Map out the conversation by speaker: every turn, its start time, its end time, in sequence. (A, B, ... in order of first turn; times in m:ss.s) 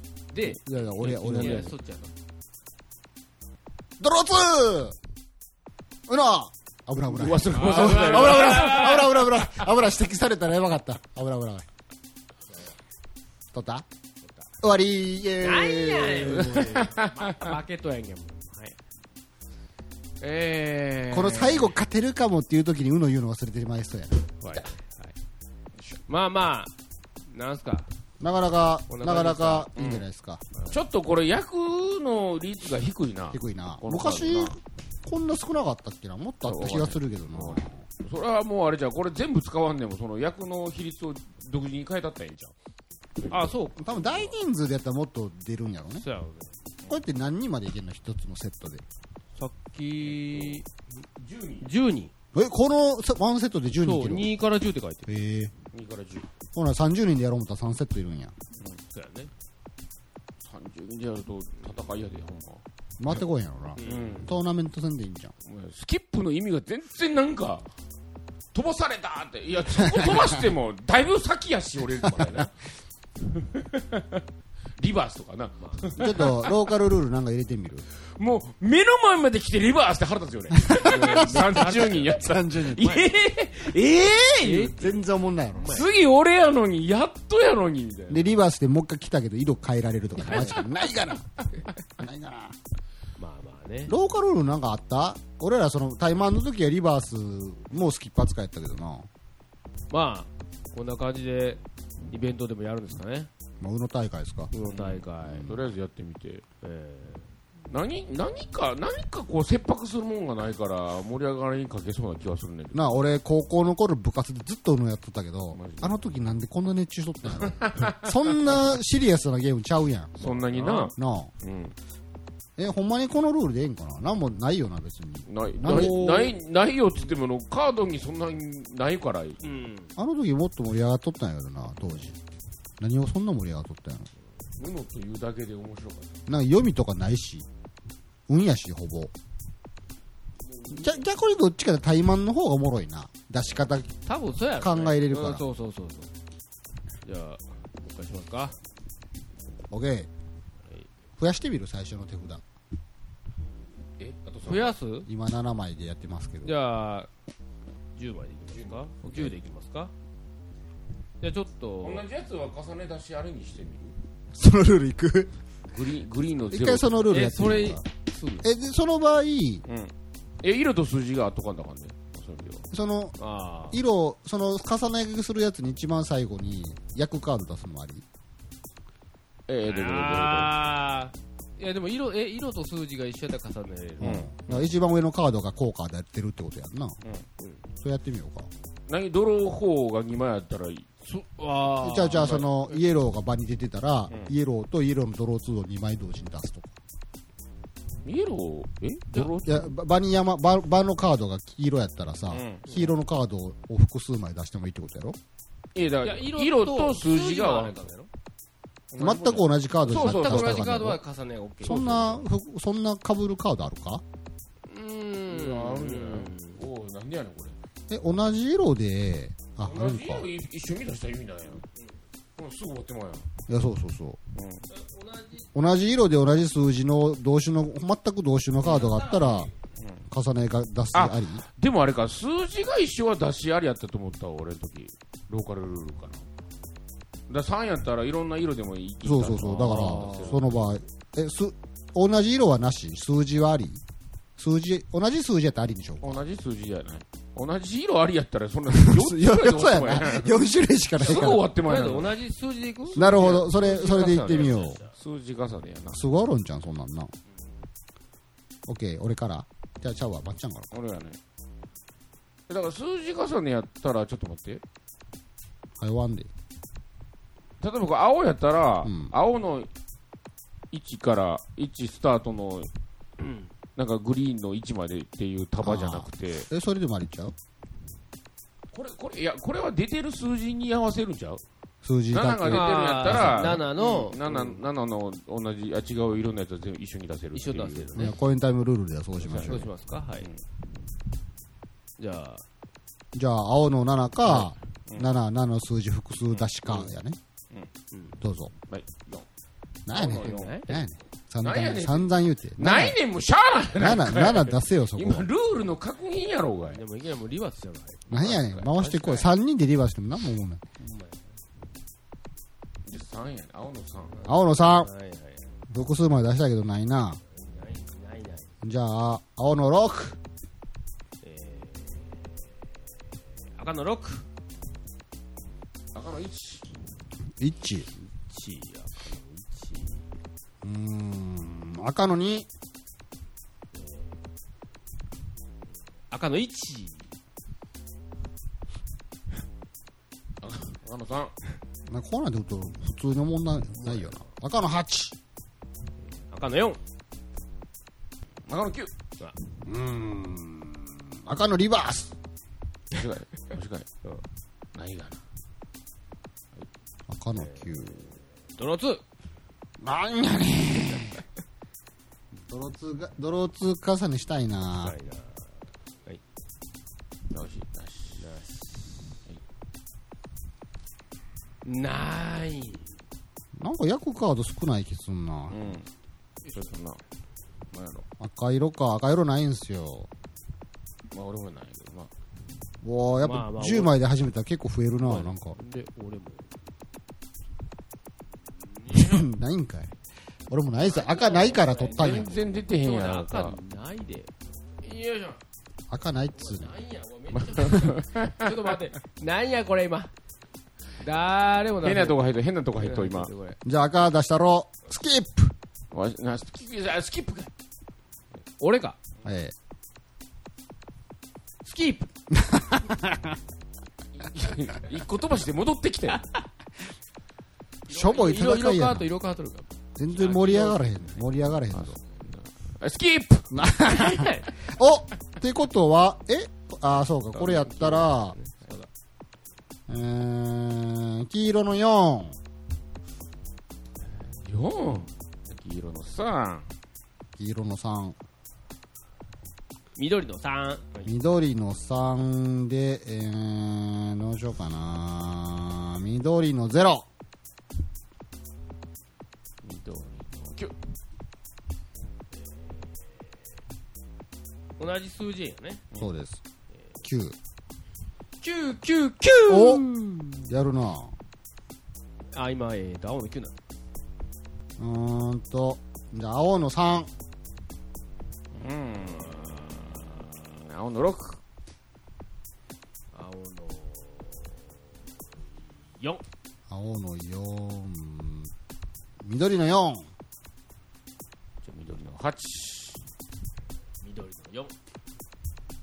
0:00.3-0:02.1 A
0:00.6-0:01.7 B
0:01.0-0:01.7 C
0:04.0-0:05.0 B
0:06.1-0:11.7 B
0:07.1-0:09.1 C
0:07.5-0:09.1 A
0:13.5-0:13.9 B
0:14.2-0:14.5 A
0:14.6-0:16.8 B
0:15.4-0:18.8 A
0:16.4-0:17.5 C
0:20.2-0:21.8 A
0:21.1-0:24.3 B
0:24.4-0:25.1 A
0:26.1-0:26.7 A
0:27.3-0:27.9 A
0:28.2-0:30.4 B
0:28.9-0:29.7 A
0:29.8-0:30.1 C
0:30.7-0:34.6 C
0:33.3-0:37.8 B
0:36.4-0:42.5 C
0:43.2-0:43.5 C
0:43.3-0:44.4 A
0:43.8-0:46.0 B
0:46.0-0:46.6 A
0:46.9-0:48.8 B
0:49.4-0:50.7 A
0:50.0-0:50.6 C
0:51.2-0:51.7 C
0:51.6-0:52.1 A
0:52.3-0:54.4 B
0:53.8-0:55.1 A
0:55.1-0:55.5 B
0:55.7-0:56.3 C
0:56.5-0:58.4 B
0:58.9-0:59.3 A
1:00.4-1:02.6 C
1:03.0-1:05.3 B
1:03.8-1:04.2 A
1:03.8-1:04.3 C
1:05.4-1:07.7 C
1:08.5-1:12.5 C
1:09.8-1:10.4 B
1:13.2-1:14.2 C
1:14.8-1:16.6 C
1:15.6-1:15.9 A
1:16.0-1:17.9 B
1:18.2-1:24.8 C
1:20.5-1:23.1 B
1:20.7-1:22.3 A
1:24.4-1:25.0 A
1:24.7-1:25.8 B
1:25.5-1:25.9 A
1:25.6-1:28.3 C
1:28.1-1:32.6 B
1:30.2-1:30.6 C
1:30.3-1:30.6 A
1:33.2-1:34.0 A
1:33.9-1:39.1 B
1:39.9-1:43.3 A
1:43.6-1:44.5 B
1:44.5-1:45.6 A
1:44.6-1:46.4 C
1:46.6-1:47.3 A
1:47.7-1:53.0 C
1:52.7-2:00.3 B
1:55.5-1:56.0 C
1:57.4-1:58.2 C
2:00.2-2:01.8 C
2:00.5-2:00.9 A
2:00.9-2:01.3 B
2:02.6-2:06.4 B
2:05.3-2:09.4 C
2:09.4-2:09.9 A
2:10.0-2:12.2 B
2:12.8-2:14.1 B
2:14.6-2:16.2 C
2:16.3-2:17.5 B
2:18.3-2:19.1 B
2:20.7-2:23.9 B
2:24.0-2:26.1 A
2:24.6-2:25.4 B
2:27.0-2:28.6 A
2:29.7-2:30.1 B
2:31.2-2:32.4 B
2:34.0-2:34.8 C
2:34.4-2:35.1 A
2:35.1-2:36.6 B
2:36.4-2:37.1 A
2:38.0-2:39.9 A
2:38.5-2:39.3 C
2:41.2-2:42.0 A
2:41.8-2:44.0 C
2:44.3-2:45.3 B
2:45.7-2:47.0 C
2:46.5-2:47.8 B
2:47.1-2:48.5 A
2:48.4-2:49.6 B
2:49.7-2:52.7 C
2:52.7-2:53.2 B
2:53.2-2:53.8 A
2:53.7-2:58.0 B
2:59.5-3:00.6 C
2:59.6-3:04.3 A
3:04.0-3:07.0 B
3:04.0-3:04.7 C
3:07.8-3:08.5 B
3:08.9-3:10.9 C
3:11.0-3:12.5 A
3:11.8-3:16.8 B
3:12.2-3:12.4 C
3:18.0-3:19.7 C
3:19.4-3:25.2 B
3:22.3-3:22.8 C
3:25.8-3:27.9 C
3:26.0-3:28.1 A
3:28.9-3:30.8 C
3:29.0-3:31.0 B
3:29.9-3:32.2 A
3:31.6-3:34.0 B
3:31.7-3:32.0 C
3:34.7-3:36.6 A
3:35.3-3:37.6 C
3:37.9-3:40.3 B
3:39.6-3:41.7 C
3:42.4-3:43.3 C
3:43.5-3:44.2 B
3:44.4-3:44.7 C
3:44.7-3:45.5 A
3:45.5-3:49.5 B
3:48.7-3:49.5 A
3:49.8-3:50.0 C
3:50.1-3:51.4 B
3:50.9-3:56.3 C
3:57.3-4:00.7 C
3:59.0-4:03.8 B
4:04.4-4:06.2 B
4:06.0-4:10.4 C
4:08.7-4:11.5 B
4:11.0-4:12.2 C
4:11.0-4:14.9 A
4:12.9-4:16.0 C
4:13.0-4:14.8 B
4:15.9-4:17.1 B
4:18.7-4:20.7 B
4:20.7-4:21.2 C
4:22.5-4:24.6 C
4:25.8-4:26.3 B
4:27.6-4:29.7 C
4:28.8-4:29.1 B
4:30.7-4:32.7 C
4:33.2-4:33.5 A
4:33.8-4:36.5 C
4:35.6-4:37.3 B
4:38.7-4:41.4 C
4:41.8-4:43.6 B
4:42.1-4:48.1 C
4:42.5-4:44.6 A
4:47.3-4:48.1 A
4:48.0-4:49.7 B
4:49.2-4:49.7 C
4:49.4-4:50.3 A
4:52.0-4:52.4 A
4:53.1-4:57.2 B
4:54.3-4:55.1 C
4:56.3-4:56.9 C
4:57.9-4:58.2 A
4:58.2-4:58.5 B
4:58.7-4:59.3 C
4:59.9-5:03.0 B
4:59.9-5:00.8 C
5:00.1-5:00.8 A
5:01.4-5:06.8 C
5:03.8-5:05.3 B
5:06.7-5:08.7 A
5:08.1-5:10.6 B
5:08.4-5:09.3 C
5:10.8-5:11.2 A
5:12.9-5:14.2 C
5:14.1-5:15.6 A
5:14.2-5:14.9 B
5:15.7-5:17.2 B
5:17.3-5:18.5 A
5:18.6-5:20.2 B
5:21.2-5:22.6 A
5:23.6-5:24.3 A
5:25.9-5:26.7 C
5:27.4-5:27.9 B
5:28.0-5:30.0 A
5:30.6-5:32.5 B
5:33.7-5:34.2 A
5:36.1-5:37.1 A
5:40.4-5:41.3 C
5:41.9-5:45.2 B
5:43.8-5:44.1 A
5:46.0-5:46.8 A
5:48.5-5:48.9 C
5:49.6-5:52.1 B
5:52.9-5:53.9 C
5:54.7-5:55.2 C
5:57.1-5:58.1 B
5:57.4-5:59.0 A
5:59.8-6:01.2 B
6:02.5-6:05.0 B
6:04.8-6:06.2 A
6:07.3-6:08.2 C
6:08.2-6:09.0 A
6:11.6-6:12.9 A
6:13.6-6:15.7 B
6:15.5-6:15.9 C
6:16.4-6:16.7 A
6:16.5-6:17.0 C
6:17.7-6:18.1 C
6:18.2-6:20.1 B
6:21.1-6:22.1 C
6:22.8-6:25.6 B
6:23.2-6:24.0 A
6:25.0-6:26.6 A
6:28.6-6:29.3 A
6:28.9-6:29.9 B
6:30.5-6:32.4 B
6:30.8-6:35.4 A
6:32.0-6:33.6 C
6:35.9-6:36.7 B
6:36.3-6:40.1 A
6:37.4-6:38.7 C
6:41.0-6:42.2 A
6:41.8-6:43.3 C
6:42.8-6:43.6 A
6:43.6-6:45.6 B
6:45.9-6:47.5 C
6:48.6-6:49.0 A
6:49.2-6:49.5 B
6:51.6-6:52.1 A
6:52.3-6:53.4 B
6:54.1-6:56.2 C
6:57.9-6:59.1 B
6:57.9-7:01.2 A
7:00.0-7:02.0 B
7:01.7-7:03.6 C
7:03.5-7:08.4 B
7:03.8-7:04.5 A
7:07.3-7:08.9 A
7:09.9-7:12.4 B
7:14.4-7:16.7 C
7:17.4-7:18.2 B
7:20.0-7:21.1 A
7:21.0-7:27.1 B
7:29.6-7:30.7 C
7:32.4-7:33.3 A
7:34.8-7:35.8 A
7:36.0-7:36.4 B
7:37.0-7:37.4 B
7:38.4-7:39.8 A
7:39.5-7:41.1 B
7:42.3-7:43.6 A
7:44.8-7:47.1 B
7:48.5-7:51.4 C
7:49.1-7:50.1 A
7:53.1-7:56.2 A
7:56.7-7:58.5 B
7:59.2-8:00.1 B
8:01.6-8:03.0 C
8:04.0-8:04.7 A